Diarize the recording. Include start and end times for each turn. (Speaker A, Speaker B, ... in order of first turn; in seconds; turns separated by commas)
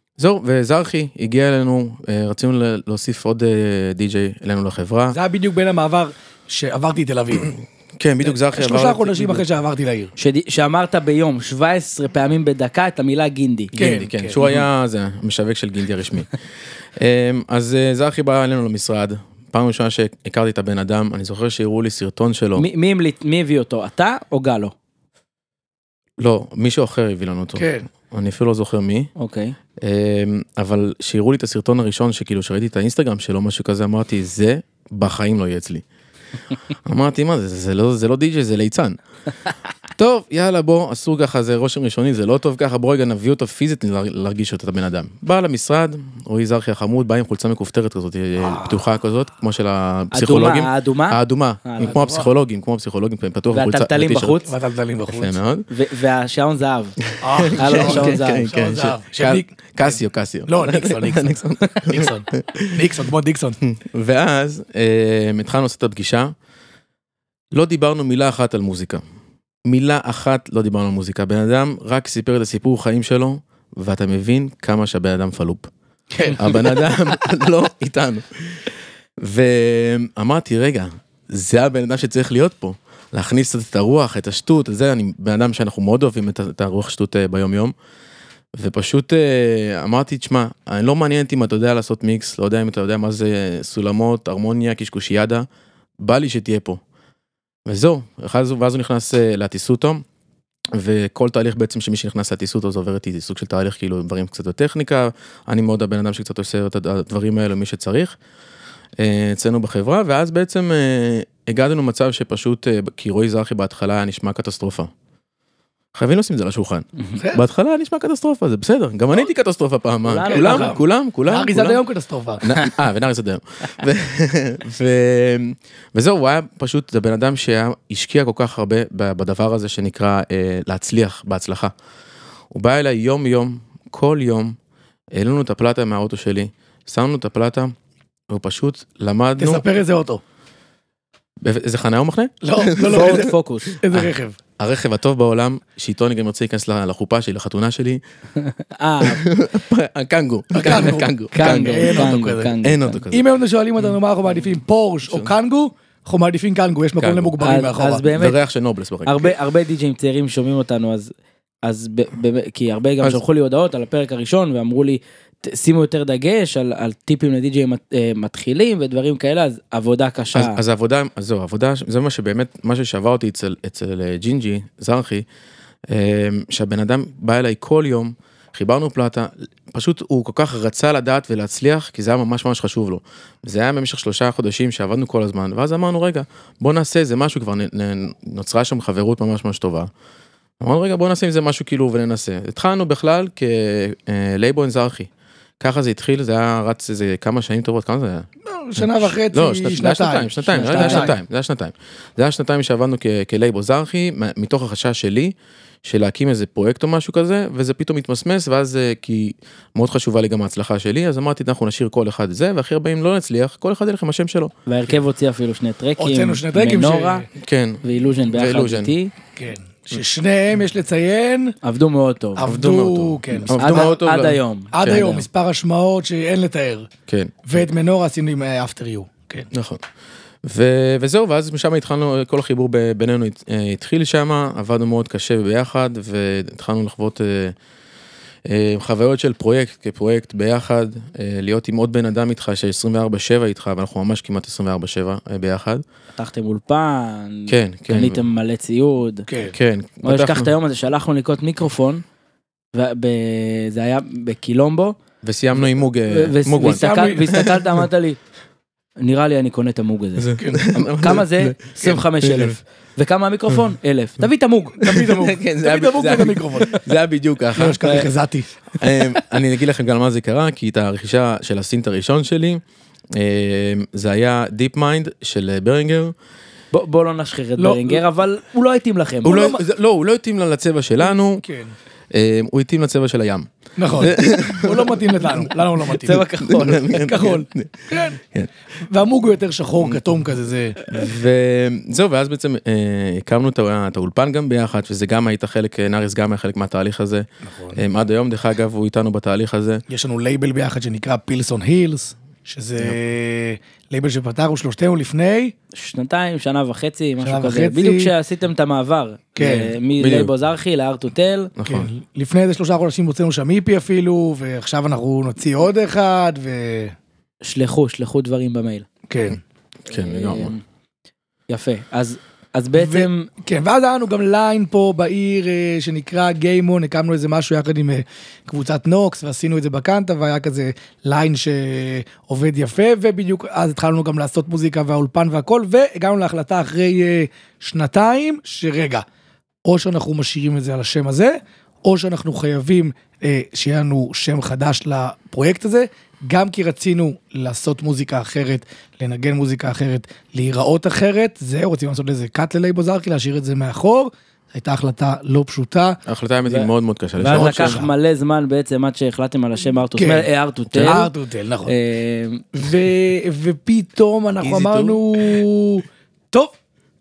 Speaker A: 0.2-5.2, Speaker B: 5.1-7.5, Speaker A: 7.4-9.4, Speaker B: 8.2-10.1, Speaker C: 10.2-13.7, Speaker A: 13.7-16.3, Speaker B: 13.8-14.5, Speaker A: 17.0-22.6, Speaker C: 22.6-24.7, Speaker A: 26.2-29.1, Speaker B: 27.6-27.9, Speaker C: 29.2-29.5, Speaker A: 29.8-35.8, Speaker A: 36.8-39.0, Speaker A: 40.0-54.4, Speaker C: 50.1-52.0, Speaker B: 51.8-52.3, Speaker C: 53.5-54.5, Speaker B: 54.4-55.4, Speaker A: 55.1-55.7, Speaker C: 55.7-57.0, Speaker A: 57.1-62.9, Speaker B: 57.2-63.6, Speaker C: 57.5-58.5, Speaker A: 63.6-66.3, Speaker A: 67.5-69.0, Speaker A: 69.7-75.7, Speaker B: 76.1-76.9, Speaker A: 76.3-87.7, Speaker A: 88.5-95.5, Speaker A: 96.0-96.8, Speaker A: 97.7-100.0, Speaker A: 100.7-108.2, Speaker A: 109.0-114.9, Speaker A: 115.9-121.8, Speaker B: 117.2-117.4, Speaker C: 120.0-120.8, Speaker B: 120.3-122.5, Speaker A: 122.4-131.7, Speaker A: 132.5-134.6, Speaker A: 135.1-137.7, Speaker A: 138.3-139.6, Speaker B: 139.4-140.2, Speaker A: 141.4-143.2, Speaker B: 142.4-144.4, Speaker C: 142.8-143.8, Speaker A: 143.9-148.0, Speaker C: 148.4-149.2, Speaker A: 149.0-153.2, Speaker B: 150.5-152.5, Speaker C: 151.3-153.0, Speaker B: 153.1-158.0, Speaker A: 155.1-155.3, Speaker A: 157.0-157.4, Speaker C: 157.4-158.4, Speaker A: 158.1-159.3, Speaker C: 159.0-161.1, Speaker C: 161.6-170.6, Speaker A: 170.3-175.2, Speaker A: 175.9-189.9, Speaker A: 190.6-214.5, Speaker B: 198.4-201.1, Speaker C: 200.5-201.1, Speaker C: 214.7-217.2, Speaker B: 216.0-217.3, Speaker A: 217.4-218.9, Speaker C: 217.8-219.1, Speaker B: 219.3-221.6, Speaker C: 221.6-222.5, Speaker B: 222.4-224.0, Speaker A: 222.4-225.0, Speaker C: 223.5-225.2, Speaker B: 224.7-226.9, Speaker A: 227.1-227.4, Speaker B: 227.4-229.5, Speaker A: 229.5-229.8, Speaker A: 230.4-237.6, Speaker A: 238.4-245.8, Speaker C: 246.1-249.2, Speaker A: 247.5-248.2, Speaker B: 249.3-249.6, Speaker A: 249.5-250.5, Speaker C: 250.0-252.0, Speaker C: 252.7-255.0, Speaker A: 255.2-257.6, Speaker C: 256.1-258.2, Speaker B: 256.6-257.4, Speaker C: 259.0-264.9, Speaker A: 260.2-262.6, Speaker B: 260.4-260.7, Speaker B: 264.8-266.8, Speaker A: 264.8-268.0, Speaker B: 267.5-268.6, Speaker A: 268.8-272.6, Speaker A: 273.1-276.1, Speaker C: 276.7-279.4, Speaker B: 277.6-278.0, Speaker A: 279.2-281.4, Speaker B: 279.2-279.6, Speaker B: 281.4-281.7, Speaker A: 282.1-288.5, Speaker B: 283.8-288.2, Speaker C: 285.9-287.1, Speaker B: 288.8-290.9, Speaker A: 290.9-299.8, Speaker B: 297.4-297.8, Speaker B: 299.9-305.5, Speaker C: 305.7-311.5, Speaker B: 307.2-308.1, Speaker B: 309.4-309.7, Speaker A: 310.0-310.3, Speaker A: 311.6-311.9, Speaker B: 311.6-316.9, Speaker C: 317.4-318.9, Speaker B: 319.1-319.4, Speaker A: 319.9-320.5, Speaker C: 319.9-320.6, Speaker C: 321.5-323.3, Speaker B: 322.8-339.0, Speaker B: 339.6-356.0, Speaker A: 356.1-357.8, Speaker C: 356.5-361.1, Speaker B: 357.2-357.9, Speaker B: 360.0-361.7, Speaker C: 361.6-362.5, Speaker B: 362.5-366.5, Speaker A: 364.4-365.4